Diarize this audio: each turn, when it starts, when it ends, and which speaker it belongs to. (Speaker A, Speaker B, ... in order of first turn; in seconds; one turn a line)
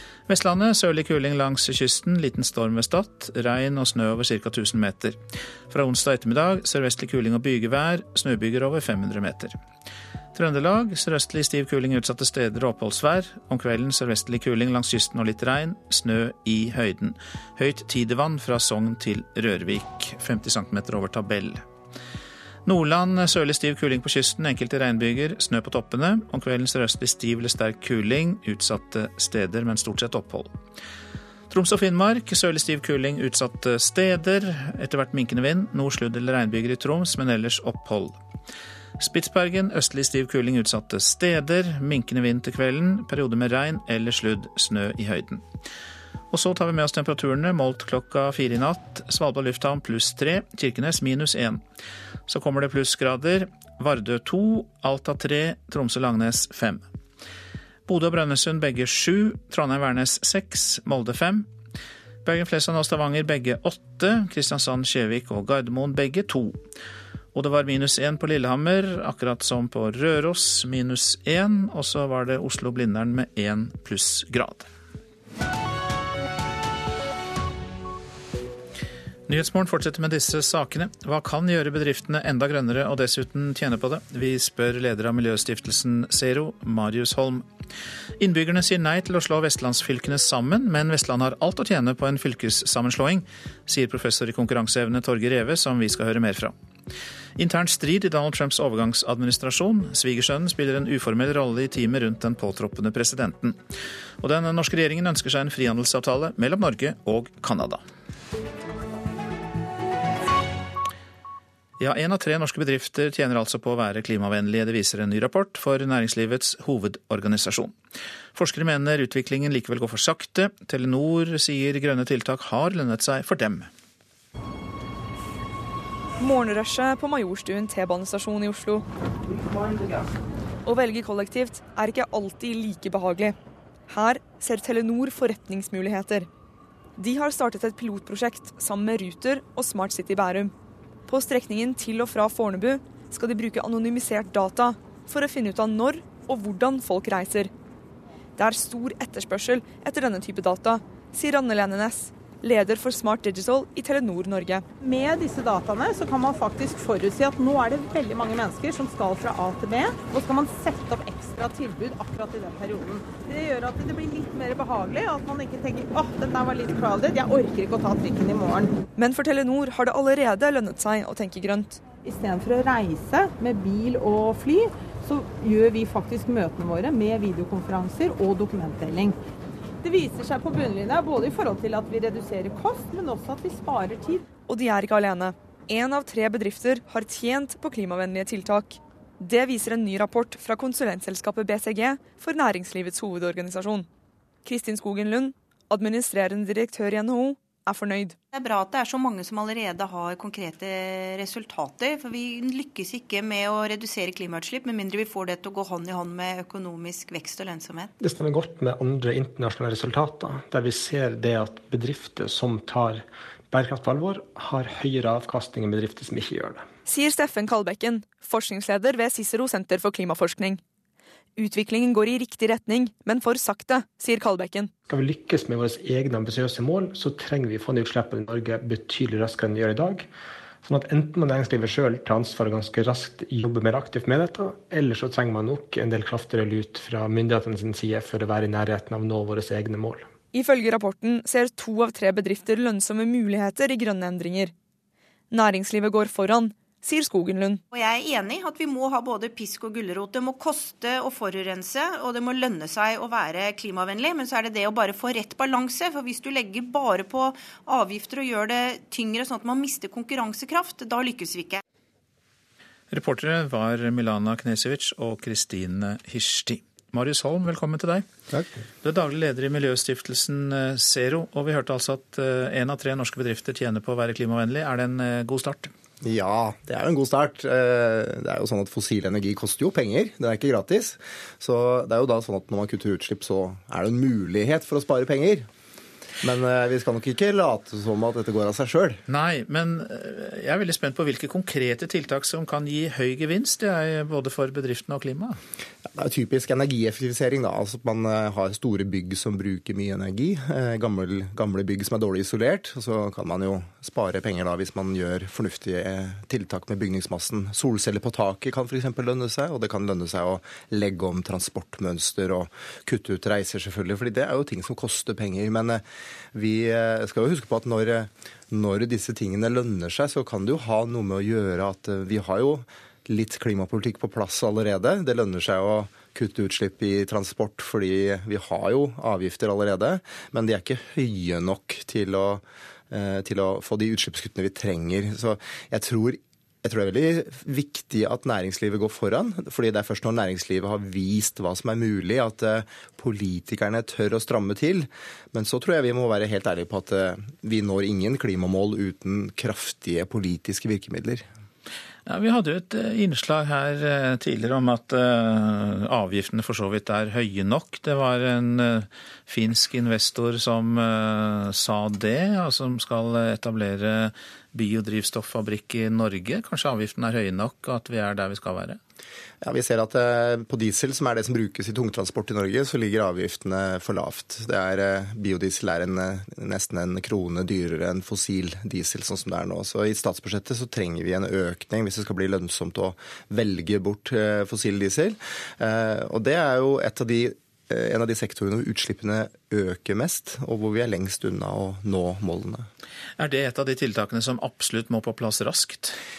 Speaker A: 0.3-9.6
Speaker A: 10.3-21.6
Speaker A: 22.6-30.6
Speaker A: 31.5-38.2
Speaker A: 39.0-45.4
Speaker A: 46.3-51.6
Speaker A: 52.3-56.8
Speaker A: 57.9-61.5
Speaker A: 62.2-66.6
Speaker A: 67.3-74.7
Speaker A: 79.3-87.5
Speaker A: 88.2-96.5
Speaker A: 97.4-103.6
Speaker A: 104.2-107.8
Speaker A: 111.8-117.8
Speaker A: 118.3-123.7
Speaker B: 126.2-128.8
Speaker B: 130.7-133.3
Speaker B: 133.9-136.3
Speaker B: 137.0-140.5
Speaker B: 141.1-147.5
Speaker B: 148.4-154.6
Speaker C: 154.8-168.8
Speaker B: 168.9-171.8
Speaker C: 171.9-179.2
Speaker C: 179.8-184.2
Speaker B: 184.5-193.9
Speaker B: 194.4-198.2
Speaker D: 198.3-207.9
Speaker E: 208.0-216.7
Speaker B: 216.8-220.6
Speaker B: 221.4-224.7
Speaker E: 224.9-230.1
Speaker E: 230.6-240.1
Speaker B: 240.3-244.5
Speaker B: 245.3-247.6
Speaker D: 247.7-261.6
Speaker A: 262.9-268.1
Speaker A: 268.8-275.7
Speaker F: 276.0-285.5
Speaker F: 286.2-289.0
Speaker A: 289.1-295.4
Speaker F: 295.9-315.8
Speaker F: 316.3-351.2
Speaker A: 352.1-368.8
Speaker F: 369.4-392.7
Speaker A: 393.2-396.0